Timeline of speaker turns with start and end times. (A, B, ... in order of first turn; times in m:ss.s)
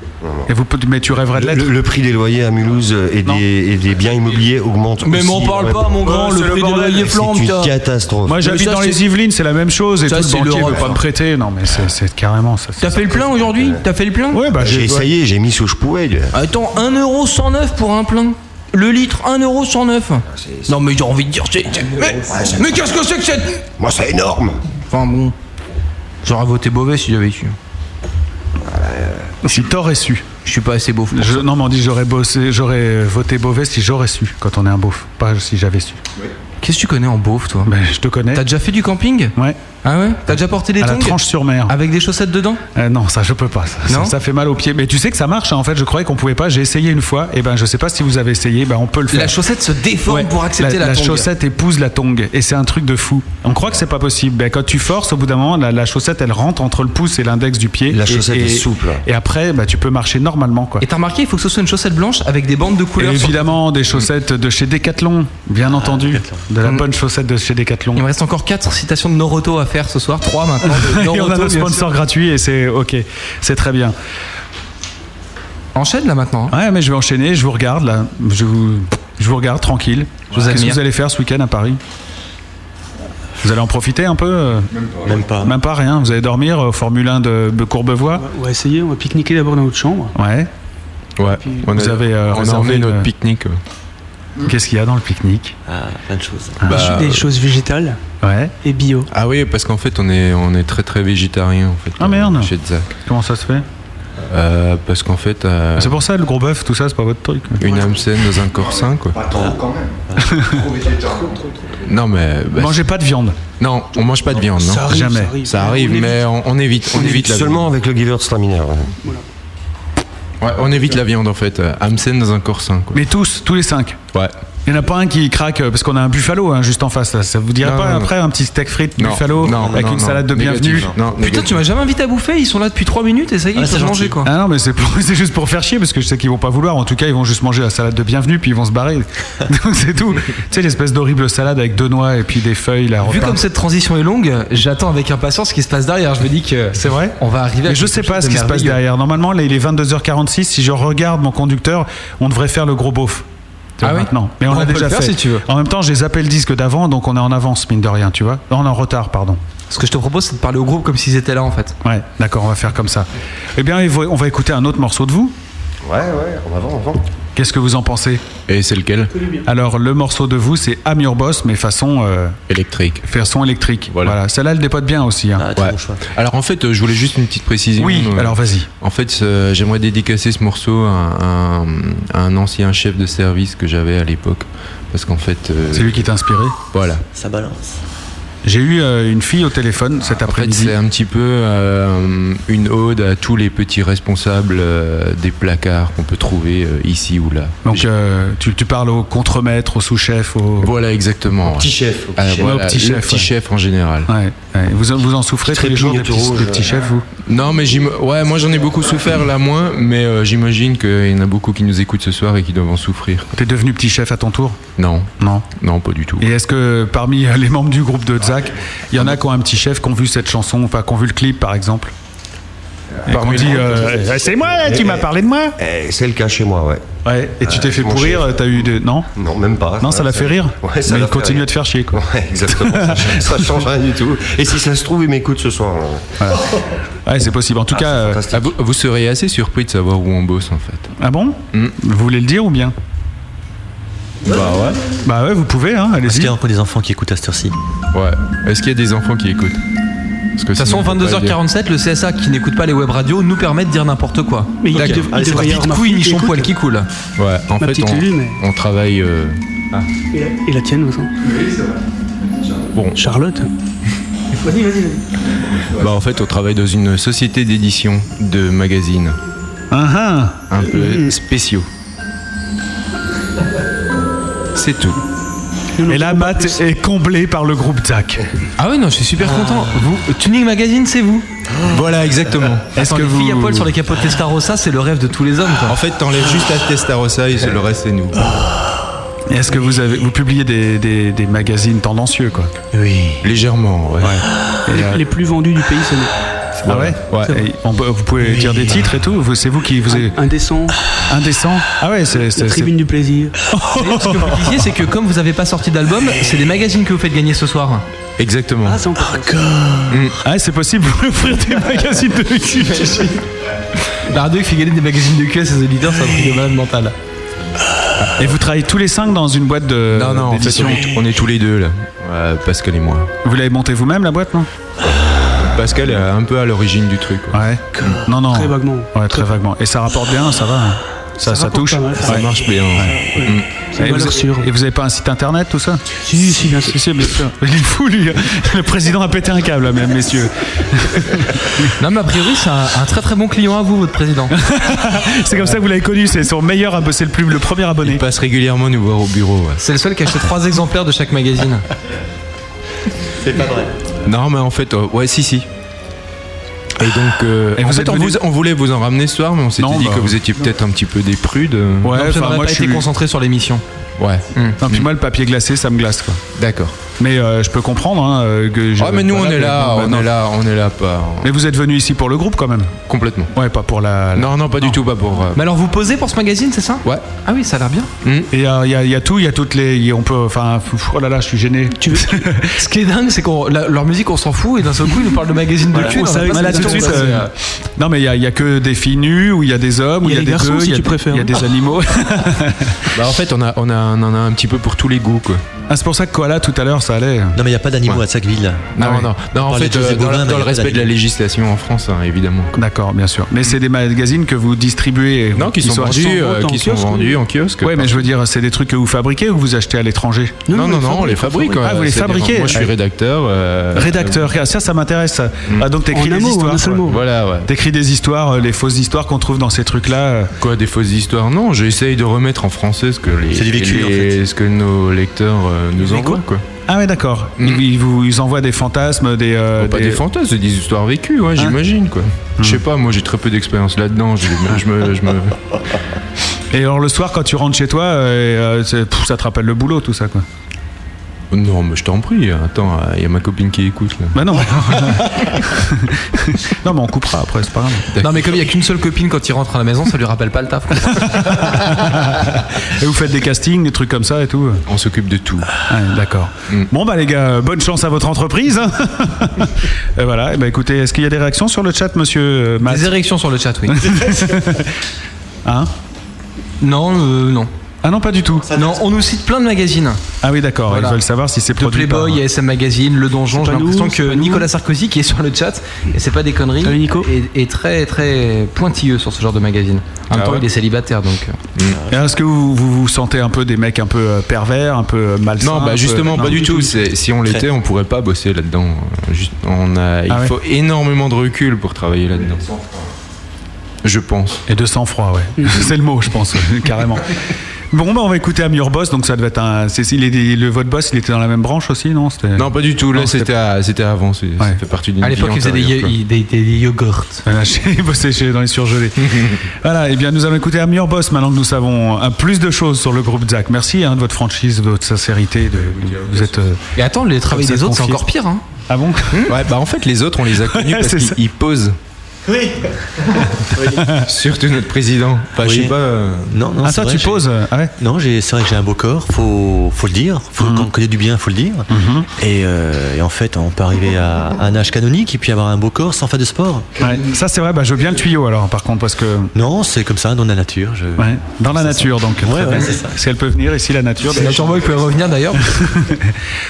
0:00.2-0:00.5 A
0:00.5-0:01.7 B
0:01.3-0:06.0 A
0:05.0-0:07.7 C
0:06.0-0:07.1 B
0:07.1-0:08.4 A
0:08.2-0:13.0 B
0:08.4-0:09.0 C
0:10.0-0:11.0 C
0:12.8-0:14.4 C
0:13.1-0:13.8 A
0:14.3-0:15.1 B
0:14.5-0:16.3 A
0:16.3-0:23.6 C
0:20.3-0:20.7 A
0:22.2-0:22.7 A
0:23.8-0:24.6 A
0:24.9-0:25.3 C
0:26.2-0:27.5 C
0:28.7-0:29.1 A
0:29.4-0:30.2 B
0:30.4-0:31.4 C
0:31.1-0:36.0 B
0:36.6-0:37.7 C
0:37.6-0:38.4 B
0:38.3-0:42.6 C
0:40.8-0:41.7 B
0:42.7-0:49.3 B
0:49.1-0:51.3 C
0:50.1-1:00.8 B
0:57.9-0:59.0 A
1:00.8-1:03.6 C
1:03.0-1:08.0 B
1:05.6-1:06.4 D
1:08.0-1:11.9 C
1:10.6-1:13.9 B
1:15.7-1:16.5 C
1:16.5-1:21.8 B
1:20.3-1:20.8 C
1:23.4-1:24.7 B
1:24.7-1:25.4 E
1:25.0-1:25.5 D
1:25.4-1:28.2 B
1:28.2-1:30.1 F
1:30.2-1:30.5 B
1:31.2-1:33.6 G
1:31.7-1:33.1 B
1:34.4-1:35.6 B
1:35.6-1:36.7 D
1:36.6-1:36.9 B
1:36.6-1:38.0 F
1:36.7-1:37.3 G
1:38.2-1:38.5 B
1:38.6-1:39.1 F
1:39.1-1:42.9 G
1:42.0-1:42.5 B
1:43.0-1:43.6 B
1:44.3-1:46.0 G
1:45.8-1:47.6 B
1:47.6-1:49.2 G
1:47.6-1:51.4 E
1:49.3-1:50.5 D
1:50.3-1:50.5 B
1:51.1-1:51.7 F
1:51.8-1:52.9 G
1:52.5-1:53.4 B
1:53.6-1:54.9 G
1:54.5-1:56.2 F
1:54.9-1:55.4 B
1:55.4-1:57.7 G
1:56.9-1:58.9 A
2:00.4-2:03.0 G
2:02.9-2:04.0 B
2:04.6-2:10.9 B
2:07.6-2:08.1 G
2:09.0-2:11.6 G
2:09.5-2:09.9 D
2:11.2-2:14.3 C
2:13.5-2:14.2 D
2:14.2-2:23.4 B
2:23.0-2:28.8 C
2:26.7-2:33.2 B
2:33.8-2:35.4 C
2:33.8-2:39.4 B
2:39.7-2:41.7 C
2:41.8-2:45.3 B
2:45.8-2:47.0 A
2:47.4-2:48.2 B
2:48.5-2:49.1 G
2:49.1-2:49.4 F
2:49.4-2:52.4 B
2:52.5-2:53.0 G
2:53.0-2:55.4 B
2:53.9-2:54.2 G
2:55.4-2:56.0 D
2:55.6-3:06.1 G
2:57.8-2:58.7 B
3:05.7-3:06.5 B
3:06.7-3:07.0 G
3:07.1-3:07.8 D
3:08.4-3:10.7 B
3:10.0-3:17.9 G
3:17.6-3:20.7 B
3:20.6-3:24.1 G
3:21.5-3:22.5 A
3:22.4-3:23.3 B
3:24.1-3:27.0 B
3:25.4-3:26.8 A
3:27.2-3:33.3 G
3:33.3-3:34.6 B
3:34.8-3:36.3 G
3:35.2-3:35.4 B
3:36.2-3:41.9 B
3:43.0-3:45.5 B
3:43.1-3:44.0 G
3:43.7-3:45.1 A
3:45.6-3:46.8 A
3:47.0-3:49.1 B
3:47.4-3:48.3 A
3:49.2-3:56.1 A
3:49.8-3:53.6 B
3:56.2-3:56.5 B
3:57.0-3:58.2 B
3:57.7-3:58.5 A
3:58.3-4:00.9 G
4:01.0-4:02.7 B
4:04.2-4:04.8 G
4:04.3-4:04.7 F
4:05.0-4:06.3 B
4:06.0-4:07.5 D
4:07.9-4:09.6 G
4:10.4-4:11.4 G
4:10.6-4:16.9 C
4:14.6-4:16.5 F
4:14.7-4:15.1 G
4:15.1-4:15.5 D
4:17.2-4:19.9 G
4:17.6-4:18.4 F
4:20.1-4:21.1 F
4:21.2-4:21.7 E
4:22.7-4:23.0 G
4:23.0-4:23.5 F
4:24.4-4:25.0 F
4:25.7-4:29.2 G
4:29.7-4:30.4 B
4:30.5-4:31.7 G
4:30.6-4:31.1 F
4:34.6-4:35.0 G
4:35.8-4:36.6 F
4:35.9-4:38.2 B
4:38.6-4:41.2 C
4:41.6-4:42.7 G
4:42.7-4:43.7 B
4:42.8-4:45.8 C
4:45.6-4:48.4 G
4:49.3-4:52.5 B
4:52.7-4:53.3 D
4:53.2-4:54.2 G
4:54.0-4:55.0 B
4:54.7-4:56.1 F
4:56.6-5:00.2 B
4:56.6-4:57.4 G
4:58.2-4:58.8 D
4:59.9-5:00.8 F
5:01.1-5:02.7 B
5:02.3-5:03.4 F
5:03.5-5:04.5 B
5:03.7-5:07.8 C
5:08.2-5:08.8 G
5:08.6-5:10.0 F
5:09.9-5:10.2 G
5:10.2-5:13.2 B
5:14.0-5:16.9 C
5:18.0-5:18.3 G
5:18.2-5:20.9 B
5:19.9-5:23.1 G
5:23.2-5:24.5 B
5:25.4-5:28.0 G
5:27.3-5:33.0 B
5:27.8-5:29.4 F
5:31.2-5:34.5 F
5:32.0-5:33.5 G
5:33.8-5:41.7 B
5:36.0-5:37.2 F
5:41.8-5:44.3 C
5:44.3-5:48.0 B
5:47.8-5:49.6 G
5:49.6-5:51.6 C
5:53.2-5:53.7 D
5:54.0-5:55.5 G
5:56.8-6:02.0 G
5:57.6-5:58.2 B
5:59.6-6:00.2 B
6:01.8-6:02.8 B
6:01.9-6:03.6 C
6:04.0-6:04.9 G
6:04.6-6:06.2 B
6:06.3-6:06.8 G
6:07.0-6:10.1 B
6:08.8-6:11.3 G
6:11.2-6:12.7 B
6:12.9-6:13.3 G
6:13.3-6:14.8 B
6:14.1-6:15.4 G
6:15.3-6:17.9 C
6:18.0-6:18.3 G
6:18.3-6:22.6 B
6:21.8-6:22.2 F
6:22.6-6:27.3 C
6:25.7-6:27.2 F
6:25.9-6:32.9 B
6:30.0-6:31.4 F
6:32.9-6:35.4 G
6:35.7-6:37.4 B
6:37.4-6:38.7 D
6:38.7-6:42.6 G
6:38.8-6:39.1 B
6:39.4-6:41.0 D
6:42.6-6:46.1 B
6:45.3-6:48.1 G
6:45.8-6:47.2 F
6:47.6-6:50.4 B
6:50.5-6:51.6 F
6:50.5-6:54.3 G
6:51.6-6:52.7 B
6:53.7-6:56.9 B
6:55.9-6:57.0 F
6:56.9-6:57.5 G
6:57.4-7:00.3 B
7:00.4-7:06.4 G
7:03.3-7:04.2 D
7:06.7-7:10.0 B
7:09.6-7:15.4 G
7:16.5-7:20.2 B
7:21.3-7:24.2 G
7:24.1-7:27.9 B
7:27.9-7:28.3 G
7:28.0-7:31.5 C
7:30.9-7:34.6 B
7:34.7-7:35.5 G
7:35.6-7:42.9 B
7:42.6-7:44.1 C
7:43.7-7:44.7 B
7:45.4-7:45.7 B
7:46.6-7:47.5 C
7:47.8-7:48.5 B
7:48.5-7:48.8 D
7:48.5-7:50.0 C
7:50.2-7:52.2 B
7:50.7-7:51.0 C
7:51.6-8:01.4 C
7:53.3-7:54.5 F
7:56.6-7:57.1 F
8:00.1-8:00.5 G
8:01.6-8:02.0 D
8:01.9-8:06.4 B
8:05.4-8:12.8 G
8:10.1-8:10.3 B
8:13.8-8:14.4 G
8:14.5-8:17.1 B
8:17.7-8:23.3 B
8:22.3-8:25.9 G
8:25.0-8:27.2 C
8:27.2-8:36.6 B
8:29.0-8:29.4 G
8:35.6-8:36.3 G
8:36.8-8:38.4 C
8:37.3-8:38.0 B
8:38.7-8:39.3 B
8:39.2-8:41.8 G
8:40.4-8:41.2 B
8:42.3-8:42.7 D
8:43.8-8:44.1 B
8:43.8-8:46.3 G
8:45.4-8:45.8 D
8:46.3-8:56.7 D
8:46.6-8:47.7 B
8:50.4-8:50.7 B
8:51.7-8:52.1 B
8:56.8-8:59.3 B
8:59.3-9:03.0 D
9:01.0-9:04.6 B
9:04.0-9:05.4 C
9:05.3-9:06.1 B